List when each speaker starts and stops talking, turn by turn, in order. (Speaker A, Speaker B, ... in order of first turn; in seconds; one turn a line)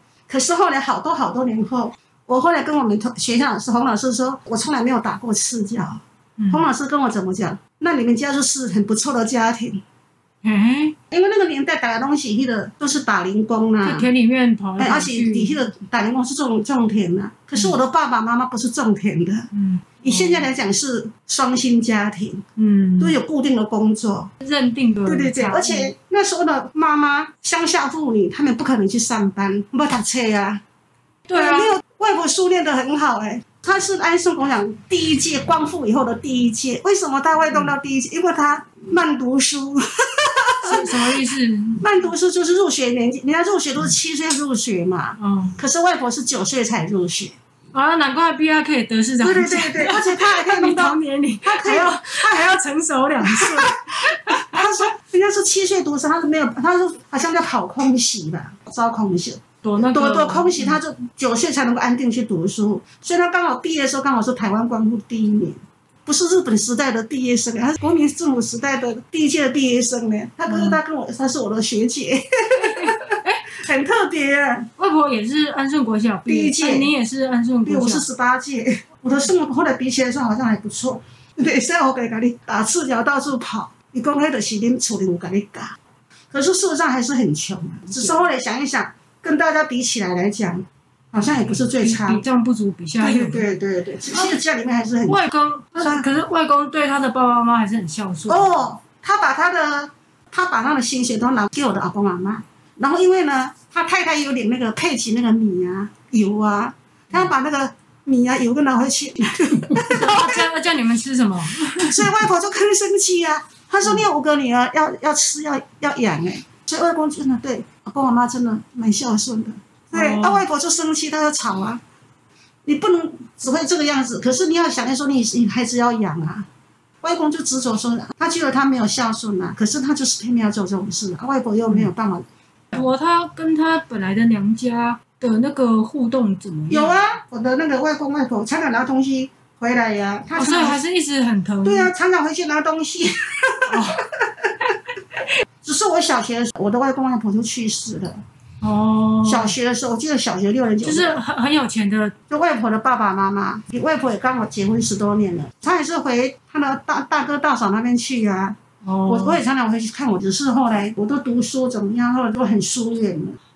Speaker A: 0.3-9.8
Speaker B: 6.4-6.7
Speaker B: 10.4-10.9
Speaker A: 11.1-14.1
Speaker B: 13.8-15.5
Speaker A: 14.8-19.5
Speaker B: 19.5-20.5
Speaker A: 20.0-22.4
Speaker B: 22.6-23.2
Speaker A: 23.0-24.3
Speaker B: 24.4-25.9
Speaker A: 25.1-30.6
Speaker B: 31.3-31.8
Speaker A: 31.3-41.1
Speaker B: 40.6-41.9
Speaker A: 41.8-47.4
Speaker B: 45.2-45.6
Speaker B: 47.7-54.6
Speaker A: 49.2-52.6
Speaker A: 53.2-72.9
Speaker B: 59.6-60.8
Speaker B: 70.5-70.8
Speaker B: 72.6-73.4
Speaker A: 73.5-74.7
Speaker B: 74.8-78.0
Speaker A: 76.3-76.9
Speaker A: 77.7-85.8
Speaker A: 86.3-92.2
Speaker B: 87.9-88.2
Speaker B: 91.8-93.5
Speaker A: 93.0-95.2
Speaker B: 94.1-94.4
Speaker B: 95.0-98.6
Speaker A: 95.8-96.1
Speaker A: 98.3-110.5
Speaker B: 109.9-112.1
Speaker A: 111.7-121.8
Speaker B: 119.9-120.4
Speaker A: 122.7-126.5
Speaker A: 127.0-132.3
Speaker B: 132.7-137.1
Speaker A: 136.7-140.8
Speaker B: 140.3-141.9
Speaker A: 141.6-144.0
Speaker B: 143.7-144.1
Speaker A: 145.6-148.2
Speaker B: 148.6-149.5
Speaker A: 149.2-151.2
Speaker B: 150.8-152.1
Speaker A: 152.3-163.4
Speaker B: 158.8-159.4